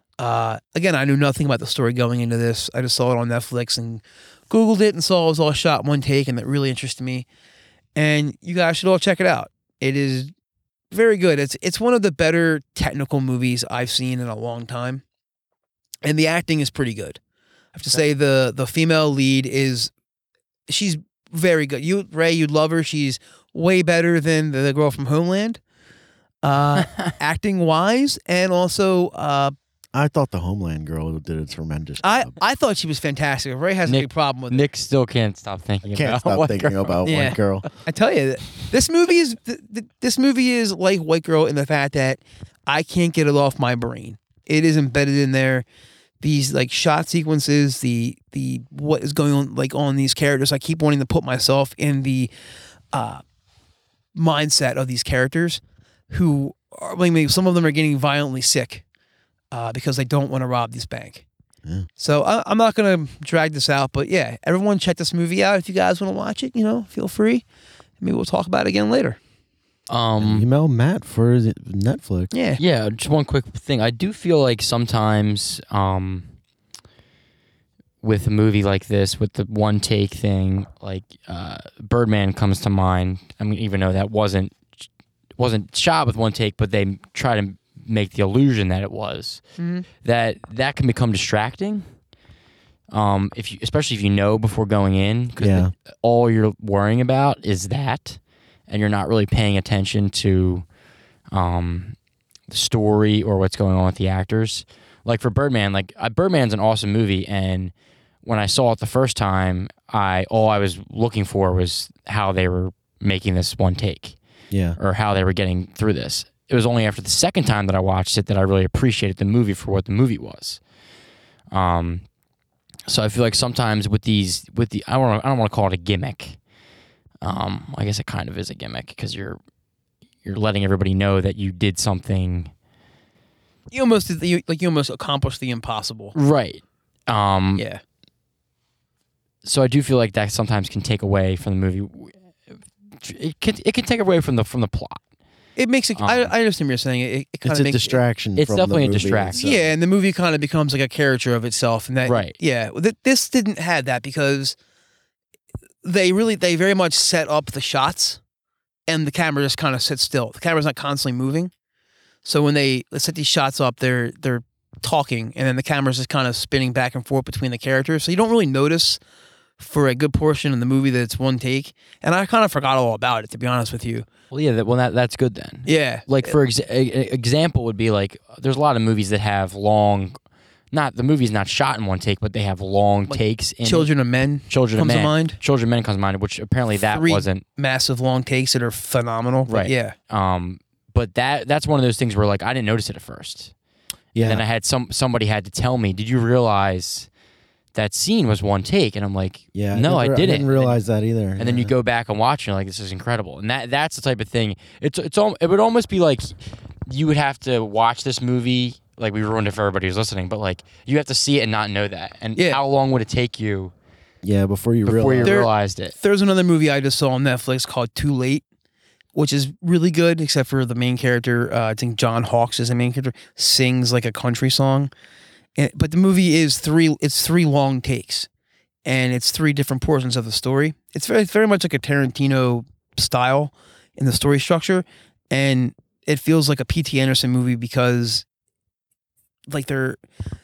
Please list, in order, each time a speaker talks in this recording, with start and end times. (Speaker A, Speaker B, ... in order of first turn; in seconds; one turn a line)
Speaker A: 0.2-7.2
Speaker A: 7.9-10.3
Speaker A: 10.9-15.0
Speaker A: 16.0-17.2
Speaker A: 17.7-19.9
Speaker A: 20.7-25.6
Speaker A: 26.4-29.5
Speaker B: 26.8-27.1
Speaker C: 29.9-32.3
Speaker A: 32.0-34.6
Speaker B: 33.9-37.0
Speaker C: 35.9-37.6
Speaker A: 37.0-45.6
Speaker A: 46.2-52.3
Speaker A: 52.9-53.2
Speaker A: 54.1-58.8
Speaker A: 59.5-61.2
Speaker A: 62.0-67.4
Speaker A: 68.0-69.2
Speaker B: 69.9-70.5
Speaker C: 70.2-72.3
Speaker A: 72.3-72.6
Speaker B: 72.6-76.3
Speaker B: 78.0-84.8
Speaker B: 85.4-89.4
Speaker A: 89.6-89.9
Speaker B: 90.0-91.8
Speaker B: 92.9-100.6
Speaker C: 95.4-95.7
Speaker B: 101.3-102.0
Speaker B: 102.5-114.2
Speaker C: 114.5-114.8
Speaker B: 114.8-120.6
Speaker B: 121.5-122.0
Speaker B: 122.9-126.4
Speaker B: 127.2-129.4
Speaker B: 130.2-132.5
Speaker A: 133.7-136.1
Speaker B: 136.1-137.6
Speaker B: 139.4-142.2
Speaker B: 143.0-145.0
Speaker A: 145.6-148.0
Speaker B: 145.9-146.3
Speaker C: 147.4-149.7
Speaker B: 148.3-149.4
Speaker A: 149.4-154.6
Speaker B: 152.0-152.3
Speaker A: 155.8-158.2
Speaker A: 158.9-161.5
Speaker A: 162.2-169.0
Speaker A: 169.6-174.1
Speaker B: 174.3-180.2
Speaker A: 175.7-176.3
Speaker B: 180.7-183.9
Speaker A: 183.1-185.4
Speaker B: 184.5-187.4
Speaker A: 186.7-189.9
Speaker B: 189.5-193.5
Speaker C: 194.1-194.4
Speaker B: 194.2-197.1
Speaker B: 197.7-200.8
Speaker C: 199.5-201.7
Speaker B: 201.4-206.3
Speaker B: 206.9-213.7
Speaker C: 214.2-215.5
Speaker B: 214.8-215.9
Speaker A: 215.2-218.4
Speaker A: 219.1-224.9
Speaker A: 225.6-228.3
Speaker A: 228.8-238.2
Speaker A: 239.5-240.0